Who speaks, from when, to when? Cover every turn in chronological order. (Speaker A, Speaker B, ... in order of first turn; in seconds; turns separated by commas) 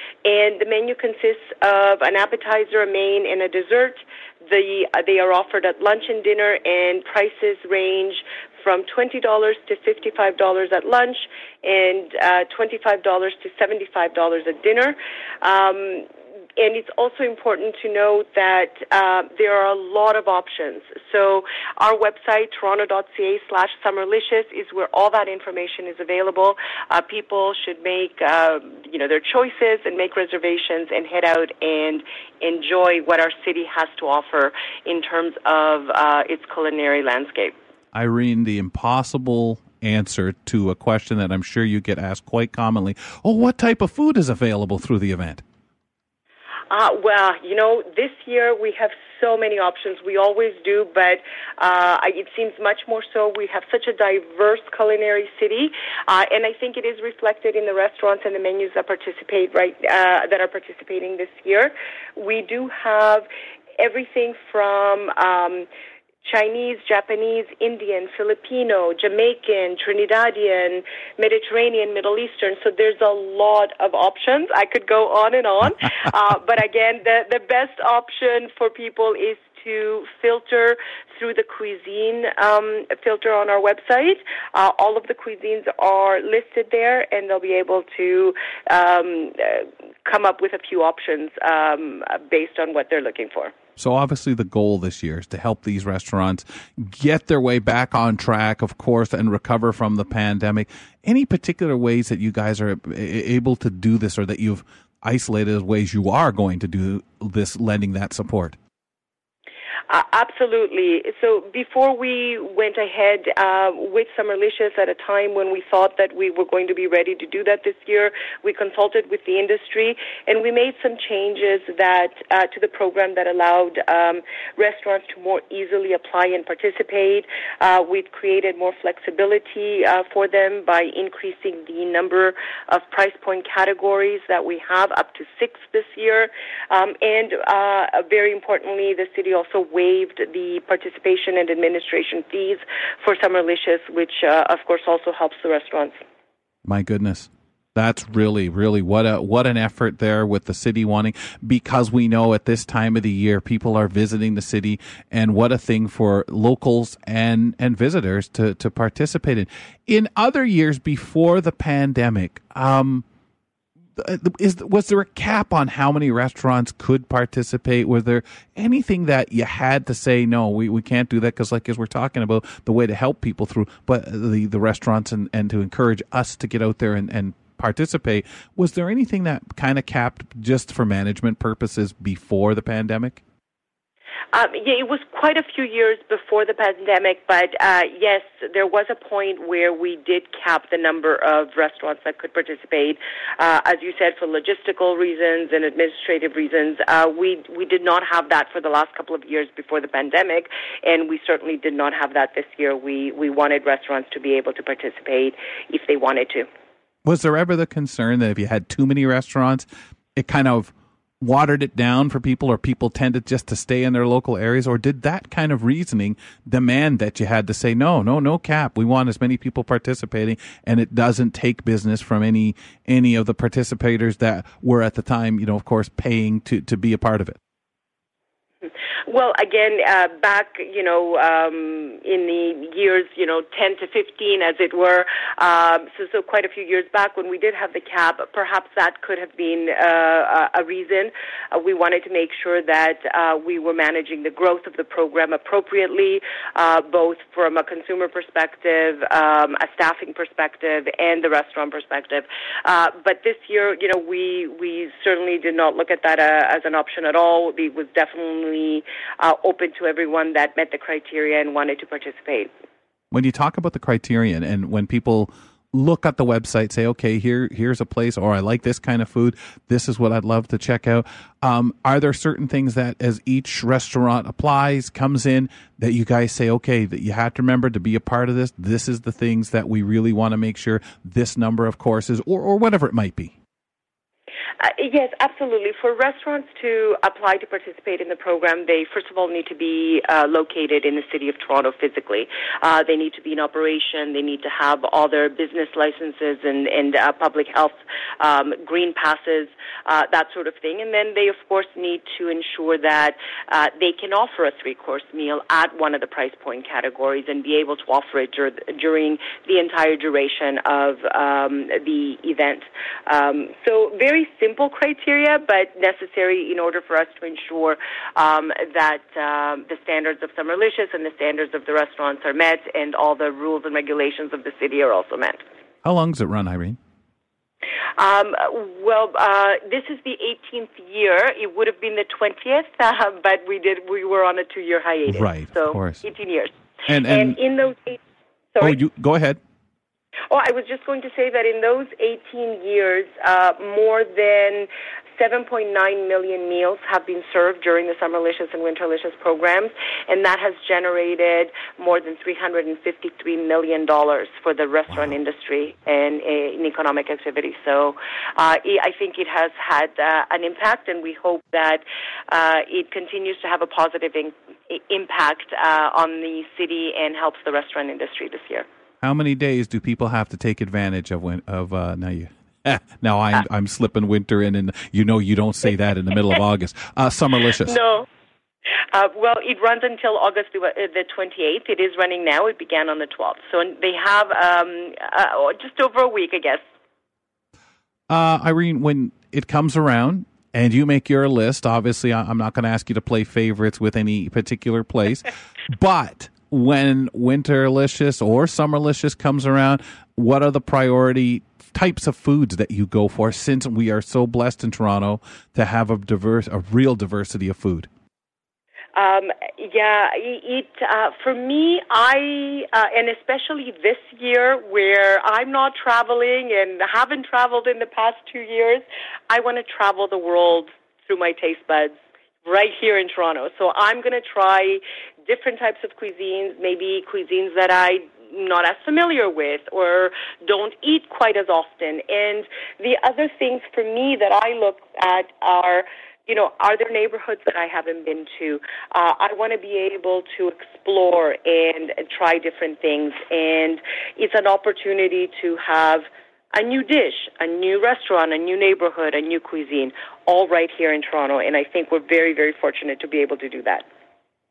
Speaker A: 0.2-37.5, Speaker B: 37.9-45.4, Speaker A: 46.7-63.2, Speaker A: 63.8-65.7, Speaker A: 66.2-93.5, Speaker B: 93.8-108.5, Speaker A: 109.9-146.0, Speaker B: 146.6-163.0, Speaker B: 164.0-183.2, Speaker A: 184.3-206.5, Speaker B: 207.0-227.4, Speaker A: 228.6-262.5, Speaker B: 263.1-283.3, Speaker A: 284.6-325.4, Speaker B: 325.8-326.8, Speaker A: 328.0-336.5, Speaker B: 335.1-336.0, Speaker B: 336.9-337.4, Speaker A: 337.0-338.0, Speaker A: 338.5-338.8, Speaker B: 338.6-339.4, Speaker A: 340.3-368.6, Speaker B: 369.0-377.8, Speaker A: 377.6-378.1, Speaker A: 378.9-386.6, Speaker B: 388.1-407.9, Speaker A: 408.9-453.8